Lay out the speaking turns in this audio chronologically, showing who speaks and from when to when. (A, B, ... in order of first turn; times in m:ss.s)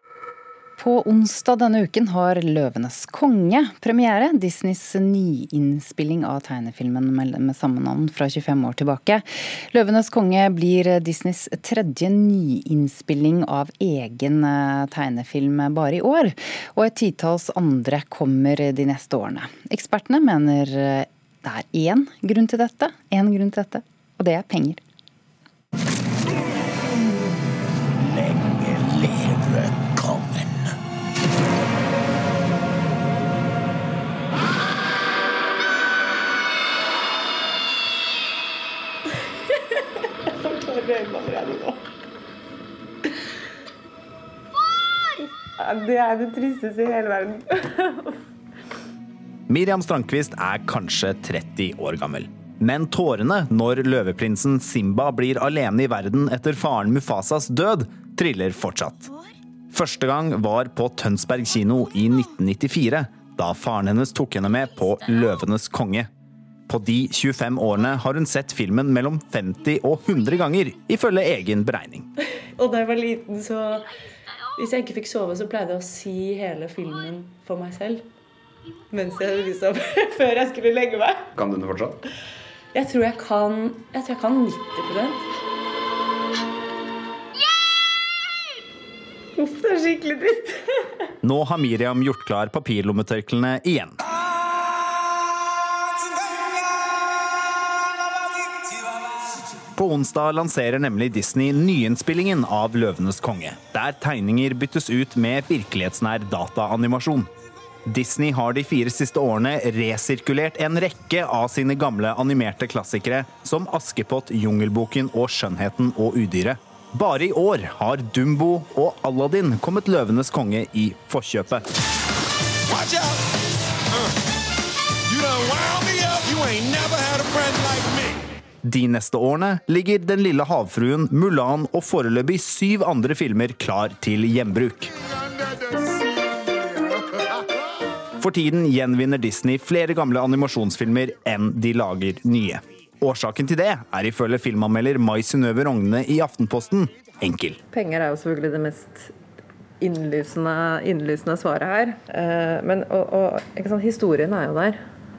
0:00.8-0:24.8 A
0:40.4-0:41.8 B
0:45.6-0:48.1 B
0:49.5-0:59.1 C
0:59.7-1:06.1 C
1:06.7-1:12.0 C
1:12.6-1:13.9 B
1:14.6-1:18.0 B
1:18.9-1:21.7 B
1:22.7-1:25.2 B
1:29.4-1:30.6 B
1:31.2-1:34.0 C
1:39.7-1:47.3 C
1:47.9-2:01.6 C
2:02.7-2:03.2 D
2:05.1-2:08.2 D
2:08.6-2:14.9 C
2:18.2-2:27.6 C
2:27.7-2:29.1 E
2:29.8-2:34.8 E